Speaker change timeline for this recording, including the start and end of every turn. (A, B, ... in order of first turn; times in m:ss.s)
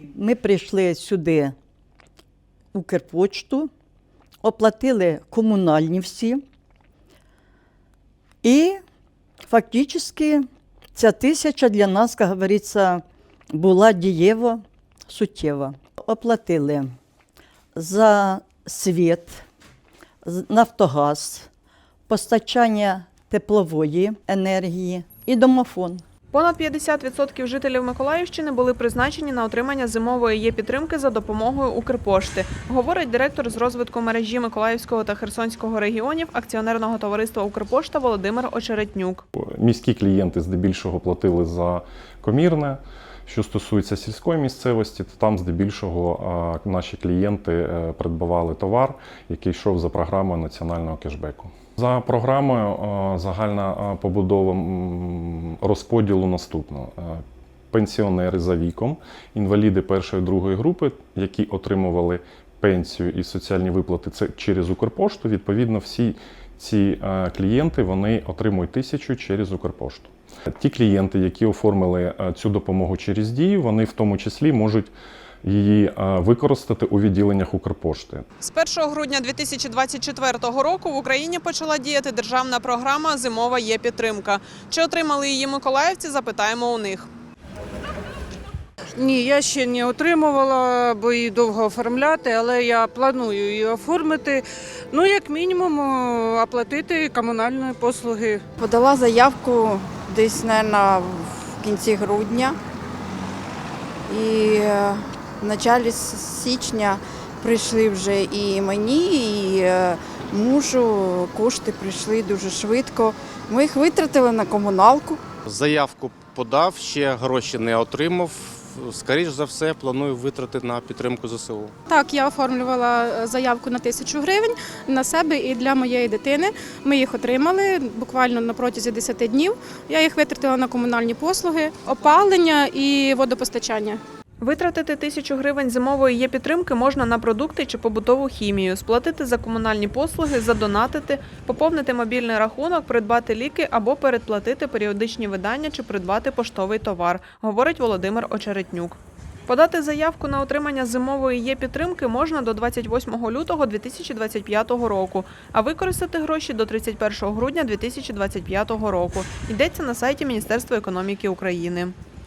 0:00.1-0:01.5 A
0:02.7-0:03.7 A
0:04.4-0:06.4 A
0:08.4-0:08.8 A
0:09.5-0:16.9 A
0:17.8-0:19.4 A
0:20.2-0:21.5 A
0:22.1-0:26.0 A
0:26.3-0:39.2 B
0:39.4-1:14.9 C
1:15.4-1:18.2 C
1:18.4-1:27.1 B
1:29.0-1:38.4 D
1:38.6-1:42.6 E
1:44.1-1:55.2 E
1:55.5-2:01.7 F
2:01.9-2:14.0 G
2:14.4-2:41.9 B